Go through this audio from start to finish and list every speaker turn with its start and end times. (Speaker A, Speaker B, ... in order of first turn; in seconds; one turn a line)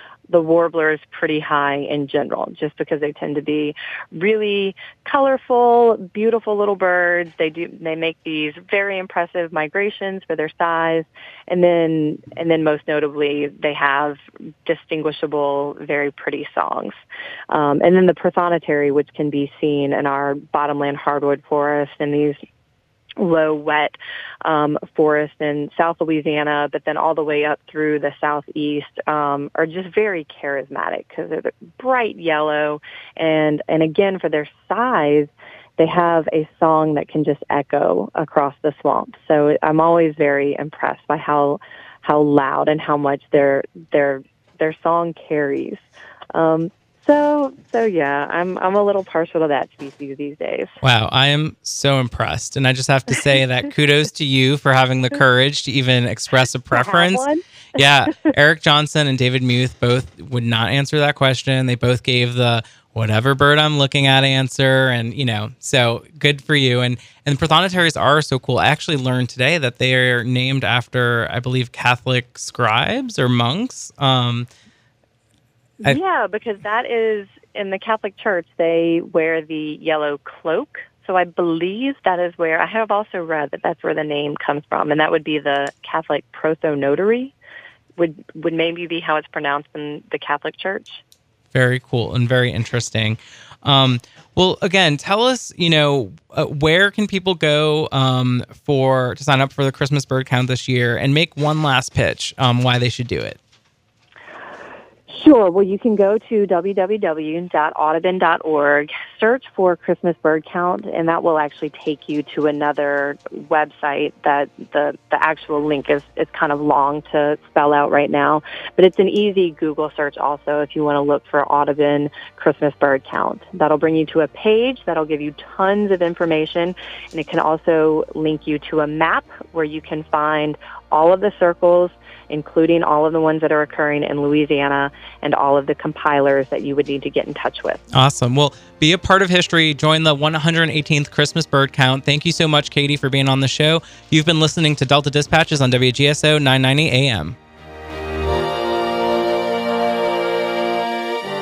Speaker A: 0.3-16.9
Speaker A: 17.5-22.4
Speaker A: 23.2-50.7
Speaker B: 50.8-57.2
Speaker A: 56.7-57.4
Speaker B: 57.8-74.5
Speaker A: 75.8-87.3
Speaker A: 88.0-91.0
Speaker B: 91.5-103.4
Speaker A: 105.1-137.8
Speaker B: 137.9-147.3